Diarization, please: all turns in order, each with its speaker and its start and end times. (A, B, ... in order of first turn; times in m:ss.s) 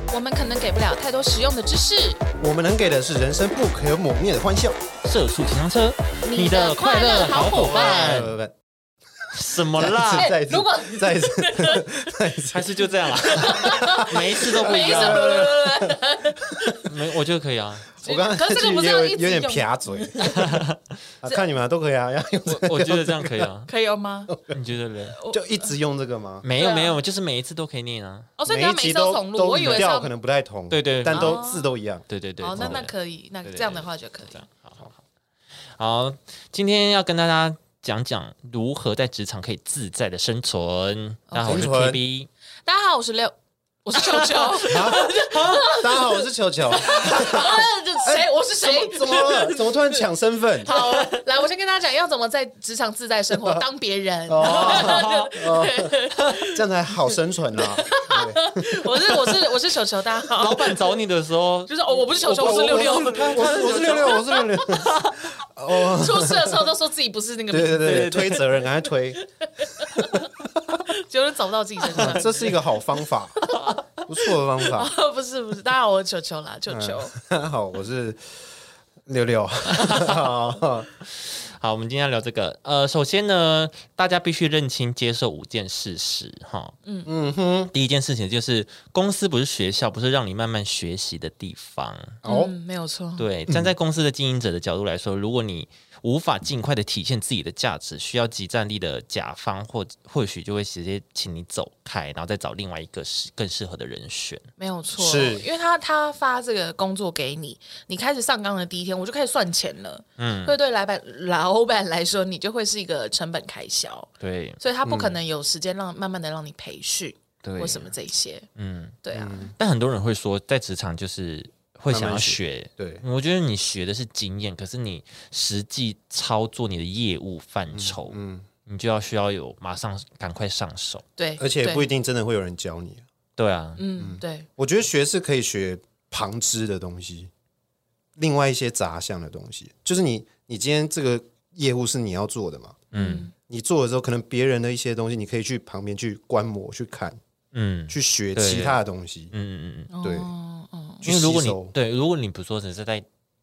0:00.1-0:02.2 A
0:02.4-0:04.8 B
0:05.0-0:08.3 C
0:06.2-0:08.2 A
0:07.3-0:08.5 B
0:09.3-0:10.3 C
0:09.8-0:16.8 B
0:10.1-0:12.1 A
0:12.5-0:15.5 C
0:13.2-0:16.9 A
0:16.9-0:17.9 C
0:18.0-0:20.3 B
0:18.0-0:20.6 A
0:20.2-0:20.8 C
0:21.2-0:23.5 B
0:22.4-0:23.7 C
0:23.7-0:24.3 A
0:24.3-0:24.6 B
0:24.5-0:25.2 C
0:25.1-0:25.7 A
0:25.3-0:26.4 B
0:26.4-0:28.3 C
0:26.5-0:27.0 A
0:28.4-0:30.1 A
0:28.5-0:32.8 B
0:30.7-0:31.4 C
0:31.0-0:31.7 A
0:32.1-0:35.0 C
0:32.4-0:34.4 A
0:35.7-0:42.3 C
0:41.3-0:41.6 A
0:41.4-0:42.0 B
0:42.6-0:50.1 A
0:44.0-0:45.8 C
0:44.7-0:50.7 B
0:47.0-0:47.4 C
0:50.6-0:56.7 A
0:50.6-0:51.2 C
0:53.4-0:53.6 B
0:54.3-0:59.2 B
0:54.4-0:55.3 C
0:56.1-0:56.4 C
0:57.6-1:00.9 A
1:00.3-1:05.2 C
1:01.7-1:04.8 A
1:02.3-1:06.7 B
1:05.7-1:08.4 A
1:07.5-1:09.2 B
1:07.8-1:08.4 C
1:09.4-1:10.3 A
1:10.9-1:12.7 A
1:11.9-1:13.5 B
1:13.4-1:13.8 C
1:14.0-1:14.9 B
1:14.6-1:17.1 A
1:16.7-1:18.4 B
1:19.0-1:20.9 B
1:19.7-1:20.3 C
1:21.0-1:26.8 C
1:26.8-1:27.1 A
1:27.0-1:27.7 B
1:27.7-1:32.2 C
1:32.2-1:32.5 B
1:32.2-1:33.3 A
1:33.2-1:44.5 C
1:44.6-1:58.5 A
1:45.0-1:45.5 B
1:50.2-1:50.6 C
1:54.2-1:54.6 C
1:54.8-1:55.2 B
1:57.4-1:57.9 C
1:58.6-1:59.0 C
1:59.0-1:59.5 A
1:59.1-1:59.5 B
1:59.6-2:11.0 C
2:01.9-2:03.0 B
2:07.7-2:08.5 B
2:11.2-2:11.9 A
2:11.4-2:13.0 B
2:13.4-2:13.8 C
2:13.8-2:14.5 A
2:14.0-2:17.3 B
2:18.2-2:22.8 B
2:22.9-2:23.3 C
2:22.9-2:23.3 A
2:23.5-2:27.2 B
2:27.5-2:29.9 C
2:27.9-2:29.3 B
2:29.9-2:31.0 A
2:30.0-2:30.3 B
2:31.0-2:31.7 B
2:31.0-2:33.0 C